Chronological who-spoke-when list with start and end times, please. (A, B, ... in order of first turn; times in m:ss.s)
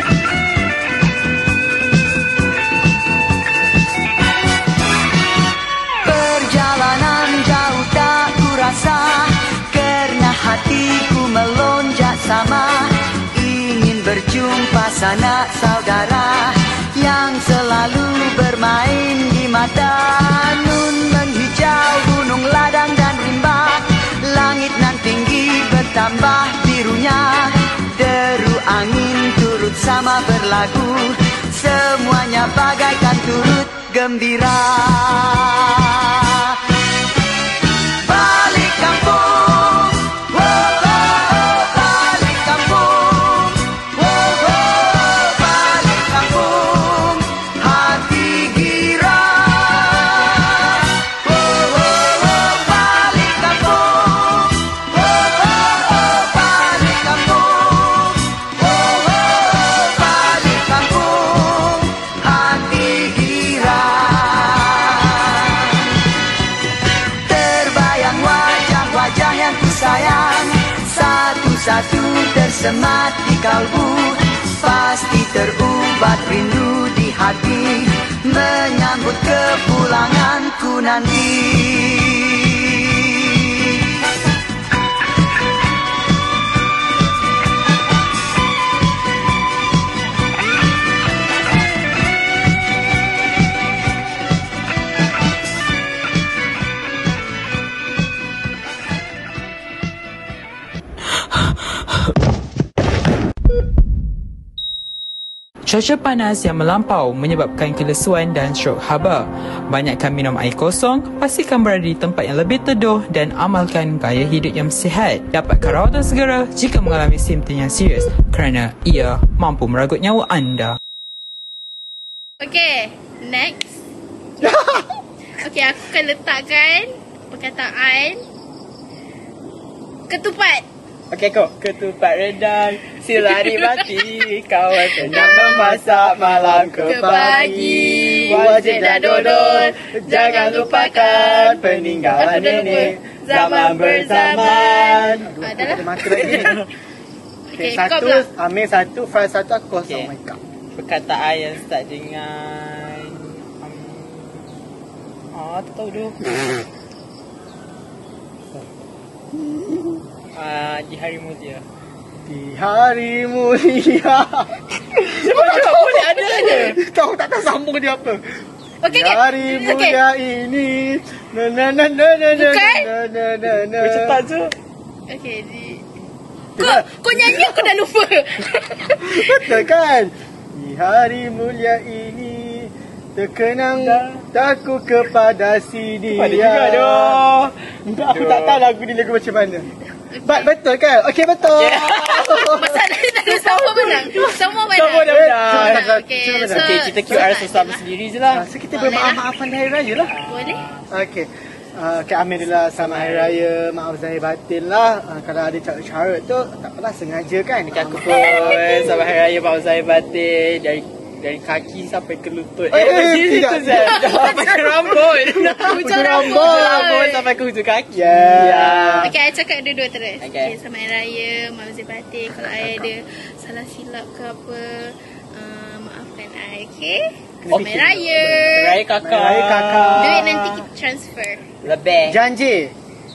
0:06.0-0:36.7 A
0:37.9-1:05.9 A
1:07.2-1:23.7 A
1:45.6-2:00.8 B
2:02.4-2:03.8 C
2:04.4-2:04.9 D
2:05.4-2:08.2 C
2:10.1-2:10.6 C
2:11.1-2:25.3 E
2:13.2-2:14.2 C
2:14.9-2:15.6 C
2:15.0-2:26.6 D
2:16.8-2:21.6 C
2:22.2-2:26.6 C
2:26.1-2:26.7 E
2:27.5-2:28.3 C
2:27.6-2:30.4 D
2:30.7-2:34.6 E
2:35.3-2:36.3 E
2:39.3-2:40.0 D
2:40.3-2:41.6 E
2:42.2-2:54.2 D
2:45.0-2:46.8 E
2:48.8-2:50.0 C
2:52.3-2:52.9 C
2:53.8-2:54.5 E
2:55.1-2:55.8 C
2:56.6-2:57.7 D
2:56.6-2:59.6 C
2:59.0-3:07.2 D
3:03.8-3:04.2 E
3:06.1-3:07.5 E
3:07.8-3:09.7 D
3:08.1-3:08.6 E
3:10.1-3:10.5 C
3:10.2-3:12.9 D
3:11.5-3:12.6 E
3:12.3-3:17.8 C
3:13.8-3:15.9 E
3:15.1-3:17.2 D
3:16.5-3:18.5 E
3:18.3-3:20.2 D
3:18.7-3:19.2 C
3:20.1-3:20.9 E
3:20.3-3:20.7 C
3:20.9-3:29.0 D
3:22.7-3:23.4 E
3:27.7-3:39.1 E
3:28.1-3:28.9 C
3:32.7-3:36.9 D
3:33.7-3:37.2 C
3:37.9-3:39.1 D
3:39.0-3:48.8 C
3:40.2-3:40.6 E
3:42.4-3:42.9 D
3:47.4-3:50.6 D
3:47.5-3:50.4 E
3:50.0-3:51.5 C
3:51.6-3:52.2 E
3:52.0-3:52.7 D